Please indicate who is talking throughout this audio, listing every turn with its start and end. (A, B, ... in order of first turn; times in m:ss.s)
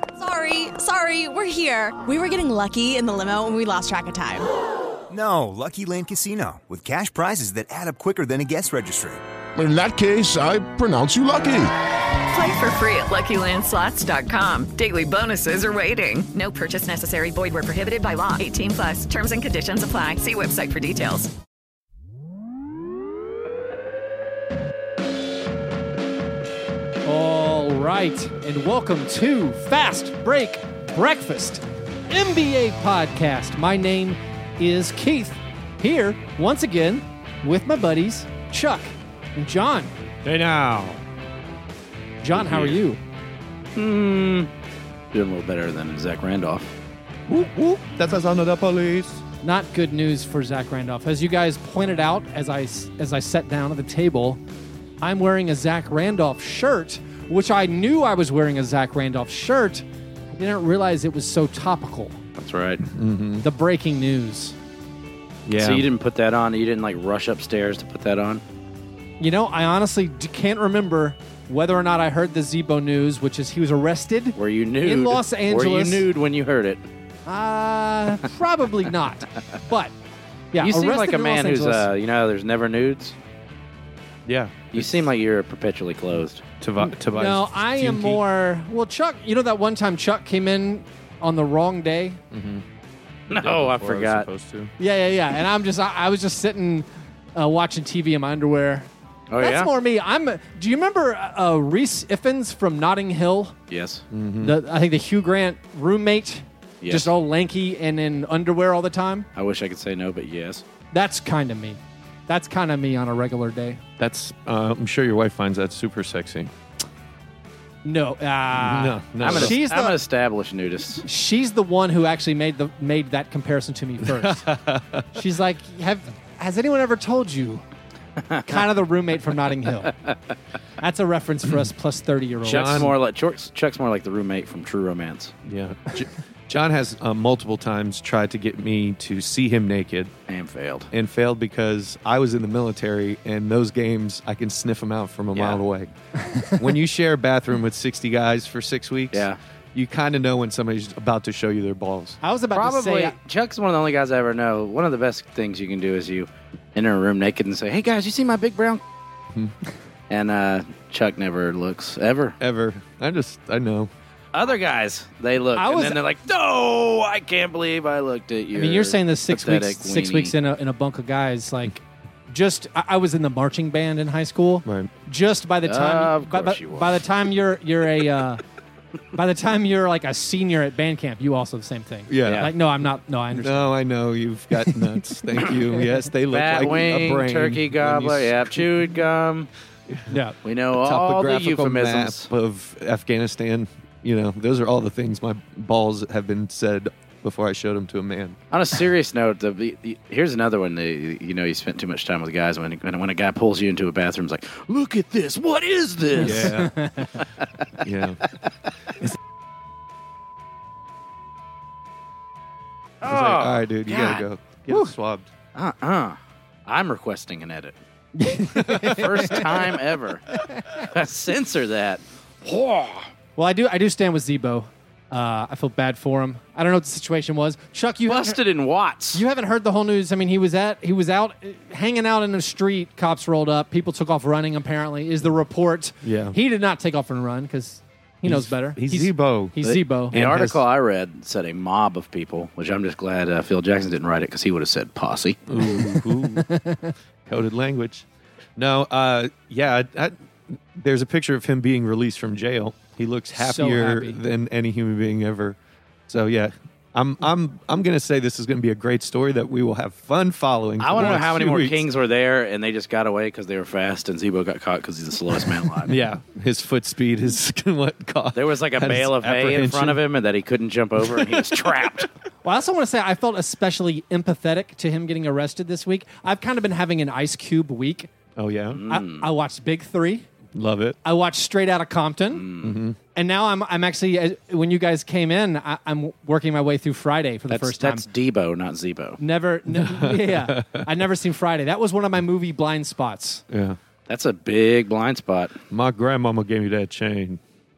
0:00.2-0:04.5 A
0:05.1-0:09.2 B
0:09.6-0:11.7 C
0:12.3-0:21.3 D
0:27.0-0:39.9 E
0:40.2-0:41.0 F
0:42.2-0:43.0 E
0:42.4-0:42.7 F
0:43.8-0:44.5 G
0:45.1-0:46.7 G
0:47.3-0:49.2 F
0:49.4-0:54.4 E
0:55.0-1:02.2 E
1:02.4-1:02.8 G
1:02.9-1:03.4 F
1:03.4-1:04.6 E
1:05.4-1:05.9 F
1:05.6-1:08.4 G
1:09.2-1:16.0 E
1:14.4-1:16.8 G
1:17.3-1:19.9 E
1:20.5-1:21.9 E
1:20.6-1:23.2 G
1:24.3-1:25.1 F
1:24.7-1:26.4 G
1:26.6-1:28.2 F
1:26.8-1:32.2 E
1:32.3-1:32.6 F
1:33.3-1:34.7 F
1:33.3-1:34.3 G
1:34.8-1:38.9 E
1:39.3-1:39.7 G
1:39.4-1:43.6 E
1:43.7-1:44.0 G
1:44.1-1:44.6 F
1:44.4-1:49.3 E
1:46.8-1:47.1 G
1:49.4-1:50.6 G
1:50.9-1:53.8 E
1:54.0-1:56.5 F
1:57.8-2:00.0 E
1:58.5-1:59.6 F
1:59.2-2:01.0 G
2:01.0-2:04.5 E
2:04.0-2:05.2 F
2:05.1-2:07.6 E
2:08.5-2:09.9 E
2:10.8-2:12.9 E
2:12.4-2:12.9 F
2:12.4-2:15.3 G
2:15.5-2:20.1 F
2:20.3-2:20.9 G
2:20.9-2:25.9 F
2:25.4-2:25.6 G
2:26.4-2:32.2 F
2:29.1-2:29.4 G
2:32.2-2:33.2 E
2:32.5-2:38.8 G
2:40.1-2:42.4 G
2:42.4-2:43.9 F
2:44.3-2:50.3 G
2:45.6-2:46.0 E
2:48.5-2:58.4 E
2:54.6-2:54.9 F
2:55.7-2:57.0 G
2:59.1-3:03.7 E
3:02.1-3:02.5 F
3:02.2-3:02.5 G
3:03.3-3:08.6 F
3:04.6-3:05.0 E
3:06.3-3:09.5 G
3:09.9-3:10.1 F
3:10.1-3:10.4 E
3:10.4-3:12.3 G
3:10.7-3:18.4 F
3:18.5-3:26.6 G
3:26.2-3:27.0 F
3:26.2-3:27.0 E
3:27.8-3:28.2 F
3:33.0-3:34.2 G
3:33.0-3:35.3 F
3:35.6-3:37.8 G
3:38.2-3:39.8 E
3:38.6-3:43.1 G
3:40.5-3:40.8 E
3:43.4-3:48.4 E
3:48.1-3:49.2 G
3:49.1-4:00.2 E
3:56.0-3:56.4 F
3:58.2-3:59.6 F
3:59.6-4:05.4 G
4:00.1-4:00.6 F
4:05.5-4:06.5 F
4:05.7-4:06.9 E
4:07.3-4:08.1 F
4:08.6-4:15.6 F
4:13.3-4:14.2 E
4:16.1-4:21.9 F
4:20.8-4:26.0 G
4:25.8-4:30.0 F
4:28.4-4:32.1 G
4:31.0-4:32.0 F
4:32.4-4:38.1 E
4:38.4-4:38.8 F
4:38.7-4:39.3 G
4:38.9-4:40.3 E
4:40.5-4:41.0 F
4:41.0-4:42.4 E
4:42.3-4:42.8 G
4:42.6-4:43.0 F
4:43.2-4:48.0 E
4:47.5-4:49.2 G
4:49.2-4:53.4 E
4:49.7-4:50.9 F
4:53.5-4:53.8 F
4:54.1-4:55.6 G
4:55.7-4:57.4 F